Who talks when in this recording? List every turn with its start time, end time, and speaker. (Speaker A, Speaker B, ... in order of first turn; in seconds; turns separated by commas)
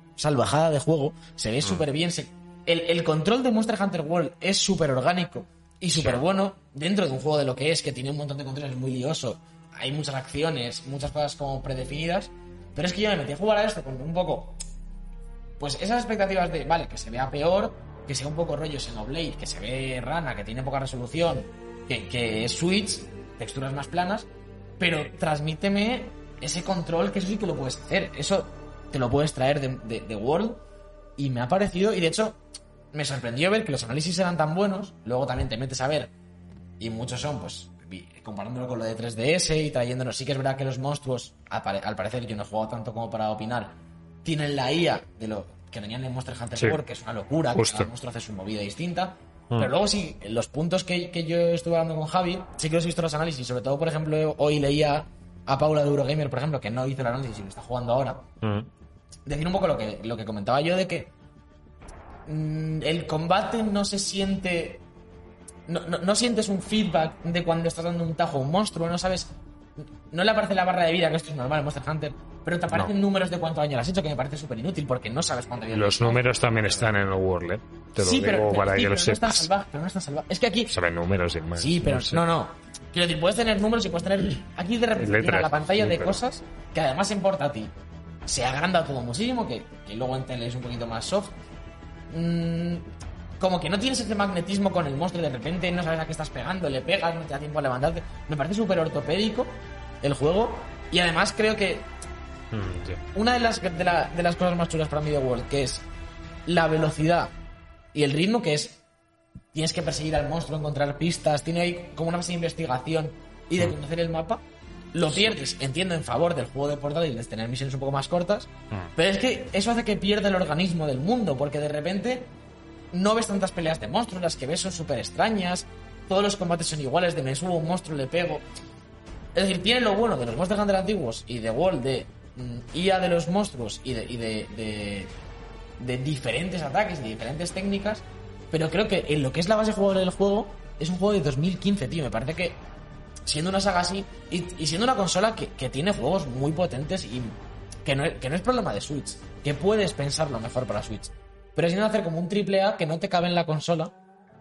Speaker A: 0.2-14.6, Speaker B: 6.0-6.2, Speaker A: 15.6-24.3, Speaker A: 24.8-30.6, Speaker A: 31.2-32.4, Speaker A: 32.9-36.1, Speaker A: 36.8-58.3, Speaker B: 46.6-46.8, Speaker B: 47.5-47.9, Speaker B: 58.4-58.7, Speaker A: 59.3-61.1, Speaker A: 62.3-64.8, Speaker A: 65.7-76.9, Speaker B: 75.7-79.5, Speaker A: 78.0-80.7, Speaker B: 80.7-82.2, Speaker A: 81.6-87.7, Speaker B: 85.0-86.2, Speaker A: 88.3-91.3, Speaker A: 92.1-101.9, Speaker B: 102.5-103.0, Speaker A: 103.1-105.8, Speaker A: 106.5-107.3, Speaker A: 107.9-108.8, Speaker A: 109.5-122.3, Speaker B: 115.1-115.4, Speaker A: 122.9-128.4, Speaker A: 129.3-135.1, Speaker A: 135.8-142.6, Speaker A: 143.3-153.9